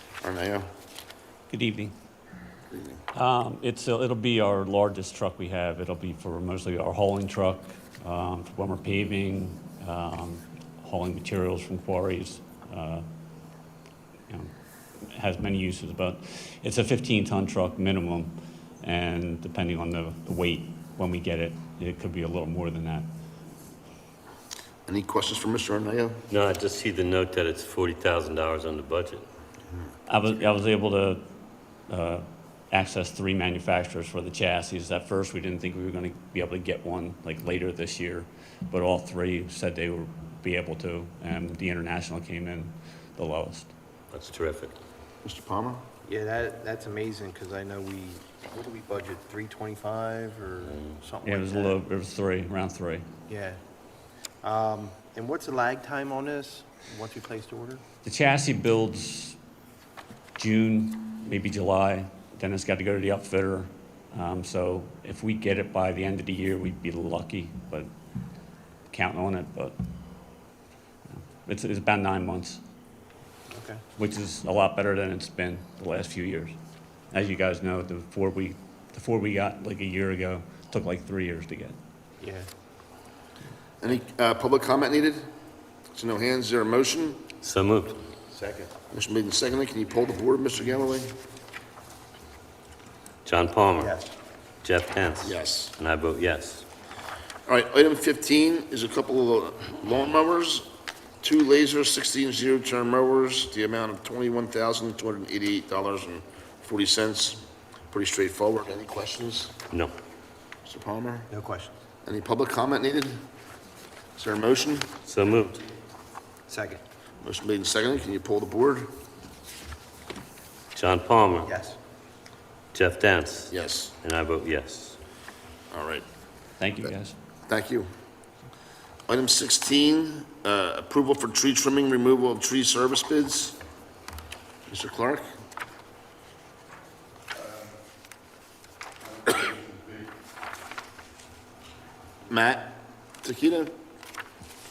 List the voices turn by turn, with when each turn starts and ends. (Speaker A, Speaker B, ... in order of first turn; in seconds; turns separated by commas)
Speaker A: 0.2-0.7, Speaker B: 1.5-1.9, Speaker A: 2.7-3.0, Speaker B: 3.1-13.1, Speaker B: 15.1-23.1, Speaker A: 24.9-26.2, Speaker C: 26.3-29.3, Speaker B: 30.1-31.3, Speaker B: 31.9-43.7, Speaker C: 44.1-44.8, Speaker A: 45.2-45.8, Speaker D: 46.0-51.8, Speaker C: 50.6-51.0, Speaker B: 51.2-53.1, Speaker D: 53.3-53.6, Speaker D: 54.4-57.8, Speaker B: 58.0-59.4, Speaker B: 60.4-67.9, Speaker B: 68.9-69.8, Speaker B: 71.4-72.6, Speaker D: 73.5-73.8, Speaker B: 74.0-76.5, Speaker B: 77.1-81.8, Speaker D: 82.2-82.5, Speaker A: 83.8-85.3, Speaker A: 85.9-87.2, Speaker C: 87.4-88.0, Speaker D: 88.3-88.7, Speaker A: 88.9-91.2, Speaker C: 93.2-94.0, Speaker D: 93.8-94.2, Speaker C: 94.6-96.7, Speaker A: 95.2-95.7, Speaker A: 97.5-100.7, Speaker A: 101.2-109.6, Speaker A: 110.7-111.3, Speaker D: 111.3-111.8, Speaker A: 112.0-113.2, Speaker A: 114.2-114.9, Speaker C: 115.0-115.6, Speaker D: 116.5-116.8, Speaker A: 117.2-118.9, Speaker C: 120.8-121.5, Speaker D: 121.4-121.8, Speaker C: 122.7-125.0, Speaker A: 123.5-123.9, Speaker A: 125.7-126.0, Speaker B: 126.6-127.2, Speaker A: 127.5-127.9, Speaker A: 129.1-133.6, Speaker A: 134.7-135.2, Speaker A: 142.3-143.7